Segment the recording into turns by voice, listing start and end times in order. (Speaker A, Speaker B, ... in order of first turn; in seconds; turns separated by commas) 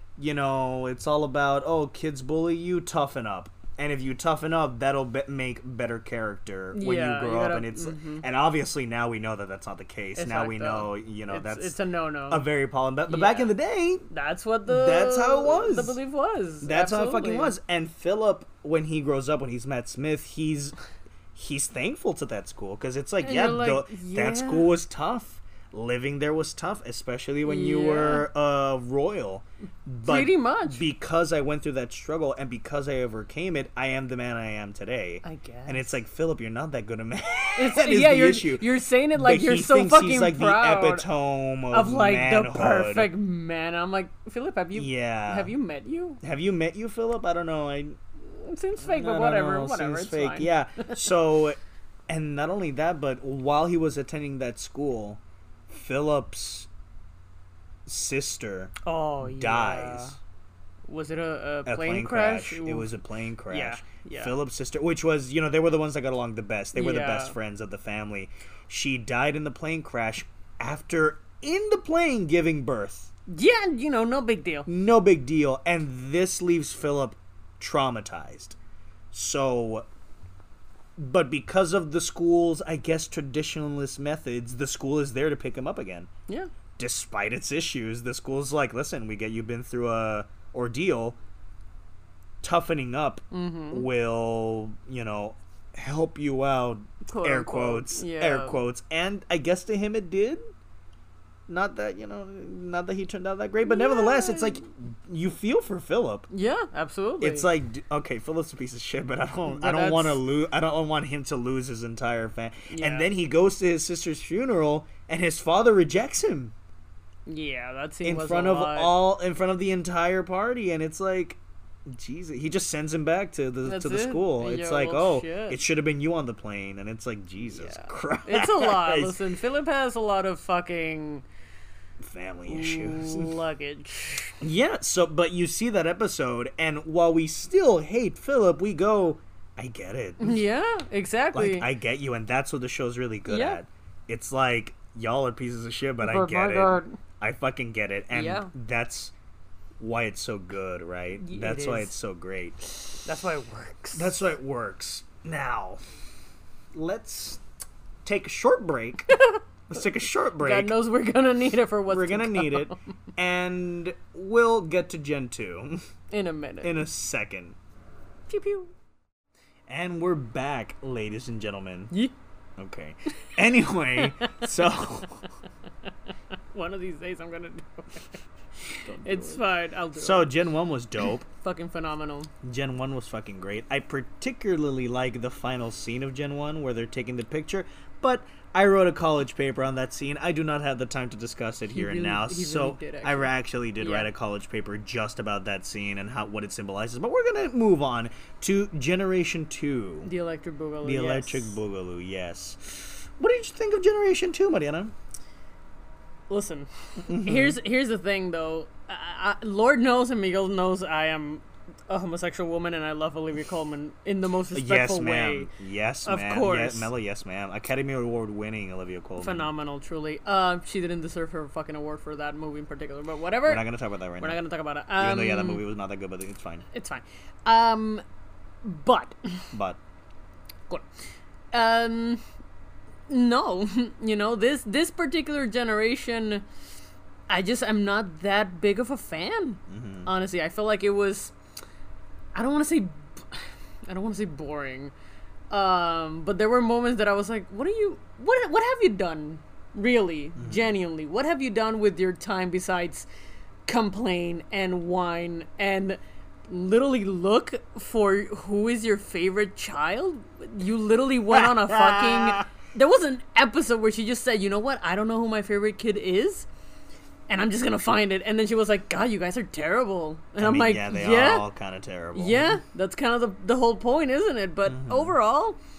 Speaker A: 0.2-11.8, Speaker B: 6.7-8.2, Speaker B: 10.2-12.4, Speaker A: 12.3-14.0, Speaker B: 13.1-13.5, Speaker B: 14.1-17.5, Speaker A: 14.7-16.0, Speaker A: 16.6-20.7, Speaker A: 21.3-43.1, Speaker B: 23.2-24.7, Speaker B: 27.4-28.3, Speaker B: 30.0-30.8, Speaker B: 35.2-35.9, Speaker B: 37.5-41.1, Speaker B: 41.7-46.2, Speaker A: 44.7-45.5, Speaker A: 46.2-48.0, Speaker B: 48.2-51.0, Speaker A: 48.8-51.6, Speaker A: 52.1-56.7, Speaker A: 57.9-60.2, Speaker B: 58.8-60.2, Speaker B: 60.9-62.9, Speaker A: 61.6-73.1, Speaker B: 63.5-64.3, Speaker B: 66.7-67.3, Speaker B: 73.3-74.7, Speaker A: 74.7-78.6, Speaker A: 79.1-79.9, Speaker A: 81.0-86.1, Speaker A: 86.8-91.2, Speaker A: 92.4-100.4, Speaker B: 93.3-93.9, Speaker B: 97.0-98.6, Speaker A: 101.5-106.3, Speaker B: 103.6-104.6, Speaker B: 106.3-107.5, Speaker A: 107.2-116.5, Speaker B: 109.5-110.2, Speaker B: 112.7-113.1, Speaker B: 117.3-118.9, Speaker A: 118.0-129.2, Speaker B: 123.6-125.6, Speaker B: 127.5-131.2, Speaker A: 132.0-133.3, Speaker B: 132.4-134.4, Speaker A: 134.4-140.4, Speaker B: 140.2-141.7, Speaker A: 141.3-149.1, Speaker B: 143.3-143.6, Speaker B: 146.0-147.0, Speaker B: 148.1-148.5, Speaker A: 149.8-152.6, Speaker B: 151.2-151.9, Speaker B: 153.0-154.1, Speaker A: 153.9-155.8, Speaker A: 156.7-157.4, Speaker A: 158.0-159.1, Speaker B: 159.1-159.4, Speaker A: 159.7-160.7, Speaker B: 160.4-162.8, Speaker A: 161.9-165.8, Speaker B: 166.1-166.8, Speaker A: 166.6-167.6, Speaker B: 168.3-168.7, Speaker A: 169.7-171.9, Speaker A: 172.6-175.2, Speaker B: 174.0-174.5, Speaker B: 176.5-178.2, Speaker A: 178.7-181.2, Speaker B: 178.9-180.3, Speaker B: 181.3-182.3, Speaker A: 182.4-200.1, Speaker B: 191.7-194.1, Speaker B: 200.0-201.5, Speaker A: 200.8-204.9, Speaker B: 206.3-215.5, Speaker A: 207.1-207.6, Speaker A: 214.5-219.5, Speaker B: 216.0-216.9, Speaker B: 219.2-223.6, Speaker A: 223.4-224.4, Speaker B: 224.2-225.6, Speaker A: 224.9-226.7, Speaker B: 226.7-228.0, Speaker B: 228.6-229.4, Speaker A: 229.5-229.8, Speaker B: 231.5-232.2, Speaker B: 233.1-236.4, Speaker B: 237.3-241.3, Speaker A: 239.7-240.1, Speaker B: 242.3-244.9, Speaker B: 245.5-253.1, Speaker A: 250.4-250.7, Speaker B: 253.7-266.5, Speaker A: 261.3-262.5, Speaker B: 267.3-271.4, Speaker A: 270.4-272.6, Speaker B: 272.1-275.6, Speaker A: 274.6-275.1